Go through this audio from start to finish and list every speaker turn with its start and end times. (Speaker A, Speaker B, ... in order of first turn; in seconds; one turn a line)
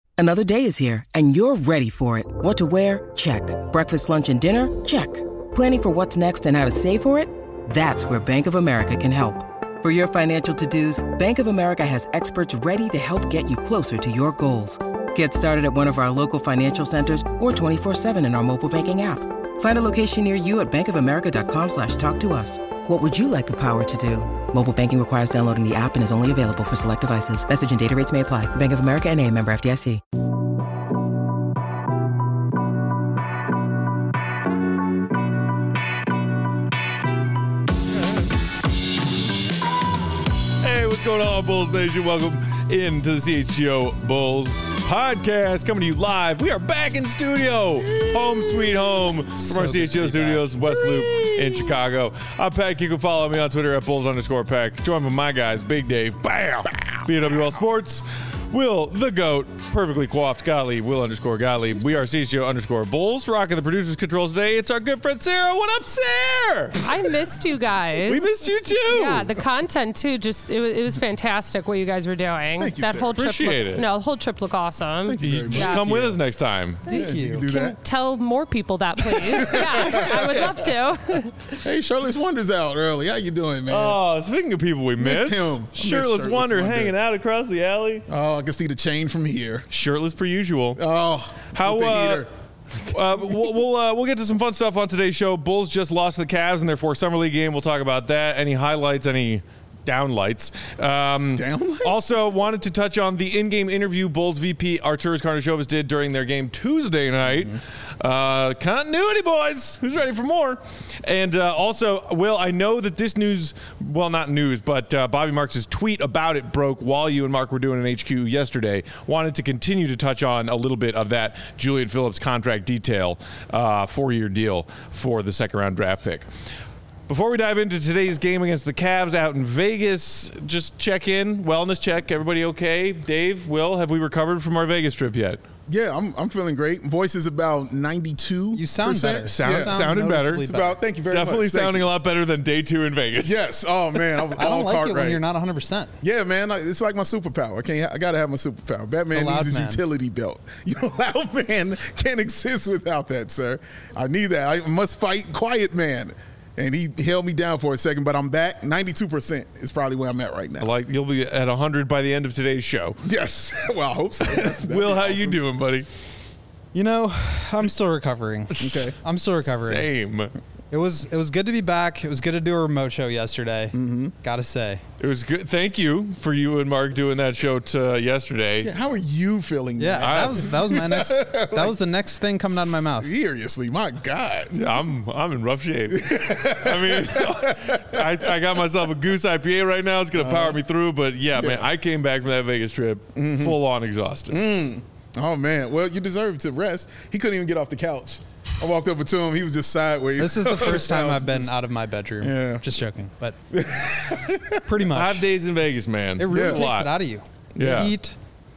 Speaker A: 0.2-30.0
Speaker B: 40.6-66.8
Speaker C: 47.9-48.7
Speaker D: 49.4-50.5
Speaker C: 50.7-51.7
Speaker E: 66.8-76.0
Speaker B: 68.0-69.4
Speaker C: 72.6-73.2
Speaker B: 73.1-73.8
Speaker C: 75.0-75.9
Speaker B: 75.2-76.8
Speaker D: 75.9-76.1
Speaker E: 76.9-81.4
Speaker D: 76.9-77.4
Speaker C: 76.9-77.8
Speaker C: 79.1-80.7
Speaker C: 81.6-84.0
Speaker B: 83.7-88.0
Speaker C: 85.0-86.9
Speaker C: 88.1-89.7
Speaker B: 89.7-90.8
Speaker C: 90.8-92.3
Speaker B: 91.5-92.3
Speaker B: 92.8-126.3
Speaker C: 101.3-102.2
Speaker B: 127.1-135.4
Speaker C: 135.7-139.9
Speaker D: 138.5-140.8
Speaker B: 139.2-140.4
Speaker C: 140.4-141.9
Speaker B: 141.1-143.4
Speaker C: 143.2-145.2
Speaker D: 144.4-145.9
Speaker C: 146.0-160.7
Speaker D: 149.1-149.8
Speaker B: 160.6-163.1
Speaker C: 163.0-165.4
Speaker B: 164.2-165.9
Speaker D: 166.7-169.9
Speaker B: 168.5-170.3
Speaker C: 168.6-168.9
Speaker D: 170.7-174.8
Speaker C: 173.7-174.1
Speaker B: 175.0-178.7
Speaker C: 178.6-181.8
Speaker D: 179.8-183.1
Speaker B: 179.9-180.4
Speaker C: 182.5-184.8
Speaker B: 184.5-194.4
Speaker C: 185.9-188.4
Speaker C: 190.1-190.6
Speaker C: 191.3-191.7
Speaker C: 193.2-193.6
Speaker C: 194.3-201.6
Speaker D: 200.2-203.4
Speaker C: 202.2-202.6
Speaker C: 203.5-204.8
Speaker D: 204.6-205.2
Speaker B: 204.9-206.9
Speaker D: 206.2-208.2
Speaker C: 206.3-206.7
Speaker C: 207.6-207.9
Speaker B: 207.6-207.9